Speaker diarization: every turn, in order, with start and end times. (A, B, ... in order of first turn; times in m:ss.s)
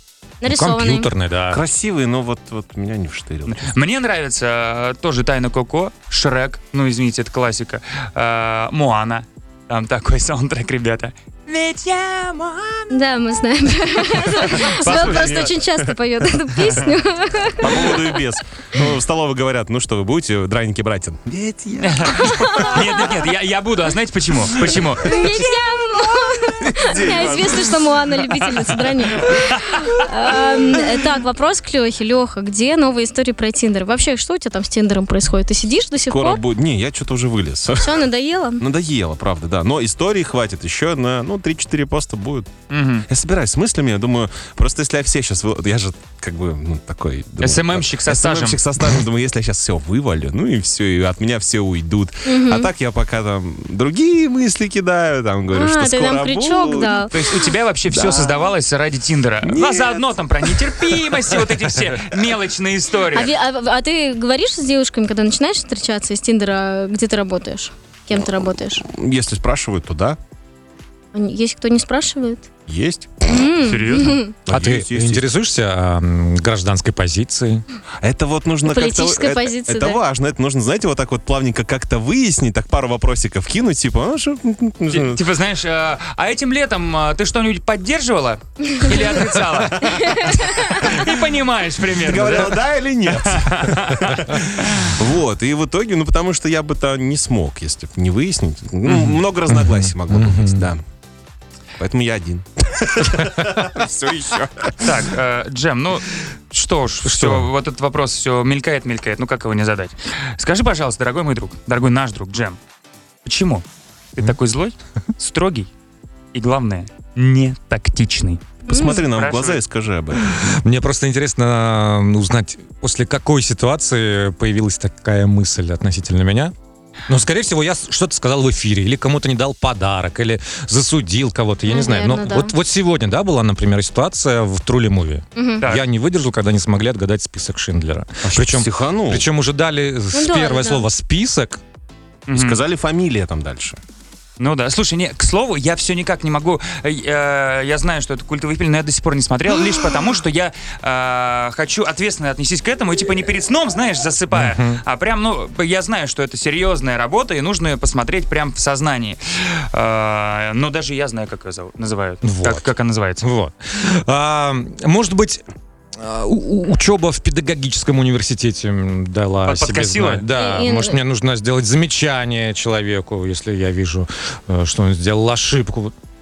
0:00.4-0:01.1 A
0:00.4-0:01.6 B
0:01.5-0:03.7 C
0:03.4-0:12.9 D
0:12.9-0:18.2 A
0:14.2-0:15.5 D
0:14.4-0:15.7 C
0:17.6-0:23.0 C
0:21.8-0:25.3 D
0:22.1-0:23.1 A
0:24.7-0:25.2 C
0:25.0-0:36.4 A
0:26.6-0:27.8 C
0:29.3-0:29.7 D
0:36.1-0:38.0 C
0:37.8-0:38.6 A
0:38.6-0:42.5 C
0:42.7-0:43.1 D
0:43.1-0:57.3 C
0:47.4-0:48.6 D
0:52.2-0:52.7 A
0:55.5-0:57.2 A
0:57.1-1:03.3 D
0:57.9-0:58.4 C
0:59.4-1:00.1 C
1:03.1-1:08.8 A
1:08.9-1:10.2 C
1:11.1-1:12.4 A
1:12.7-1:13.5 C
1:13.3-1:14.4 A
1:13.6-1:14.2 D
1:14.4-1:15.2 C
1:14.5-1:17.6 B
1:18.0-1:25.2 C
1:18.6-1:20.0 A
1:24.9-1:34.4 D
1:29.8-1:31.0 A
1:32.0-1:40.8 C
1:38.8-1:39.2 D
1:39.5-1:40.7 B
1:41.8-1:45.0 C
1:44.8-1:52.6 D
1:47.0-1:47.5 B
1:53.2-1:55.7 D
1:56.3-1:59.6 D
1:58.7-1:59.0 A
1:58.7-2:00.3 C
2:00.3-2:06.5 B
2:07.1-2:21.6 B
2:11.7-2:12.5 A
2:15.4-2:15.6 A
2:18.2-2:19.2 C
2:20.1-2:20.8 A
2:22.3-2:22.6 D
2:22.3-2:23.8 C
2:24.4-2:43.2 D
2:34.3-2:34.8 B
2:42.2-2:42.7 B
2:43.2-2:45.4 B
2:46.0-2:55.9 B
2:49.4-2:50.2 D
2:50.3-2:51.0 A